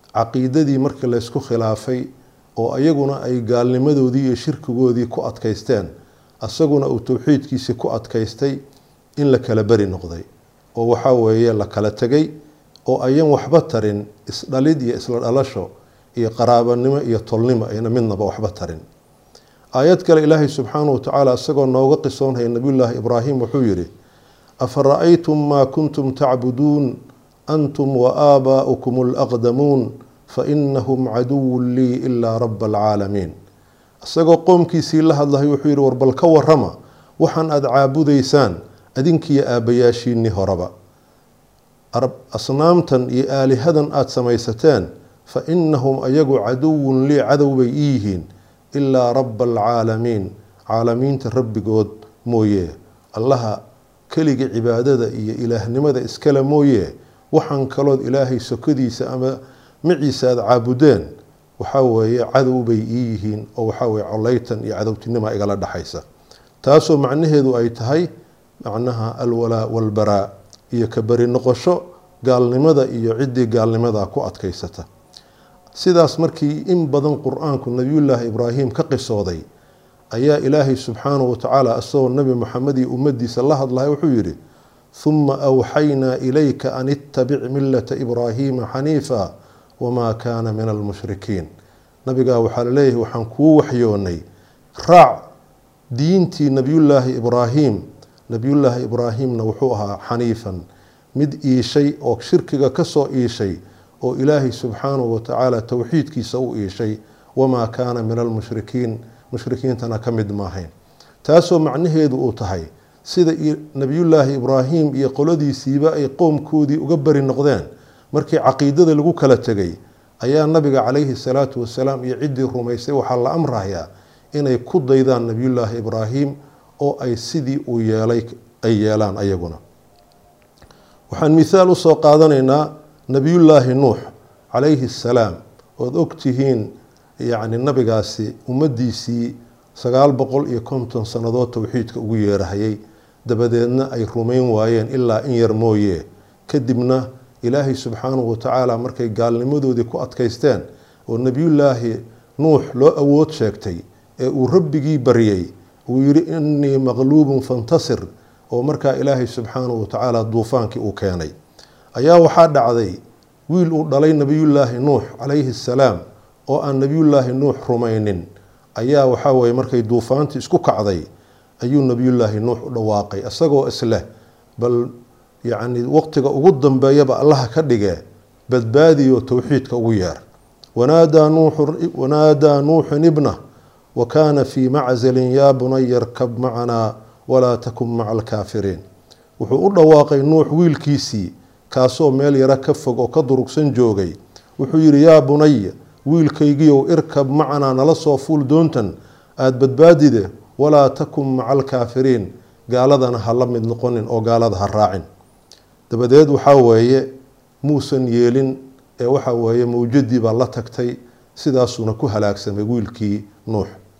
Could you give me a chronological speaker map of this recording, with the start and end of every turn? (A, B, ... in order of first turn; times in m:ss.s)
0:00.2-0:05.9 A
0:06.4-0:08.6 A
0:09.2-0:12.3 A
0:12.9-0:18.8 A
0:19.8-0:23.9 A
0:24.6-0:26.9 A
0:27.5-0:33.3 A
0:34.0-0:40.7 A
0:41.9-1:06.0 A
1:06.6-1:08.1 A
1:08.6-1:14.9 A
1:15.7-1:19.4 A
1:20.1-1:24.4 A
1:24.9-1:31.5 A
1:32.0-1:34.2 A
1:34.8-1:35.2 A
1:35.9-1:40.6 A
1:41.2-1:50.7 A
1:51.2-2:09.6 A
2:11.1-2:16.7 A
2:17.2-2:41.3 A
2:42.0-2:43.0 A
2:43.5-2:51.0 A
2:51.6-2:54.0 A
2:54.6-2:54.9 A
2:55.4-3:00.2 A
3:00.8-3:03.4 A
3:04.0-3:08.8 A
3:09.4-3:25.0 A
3:25.9-3:27.1 A
3:27.6-3:33.8 A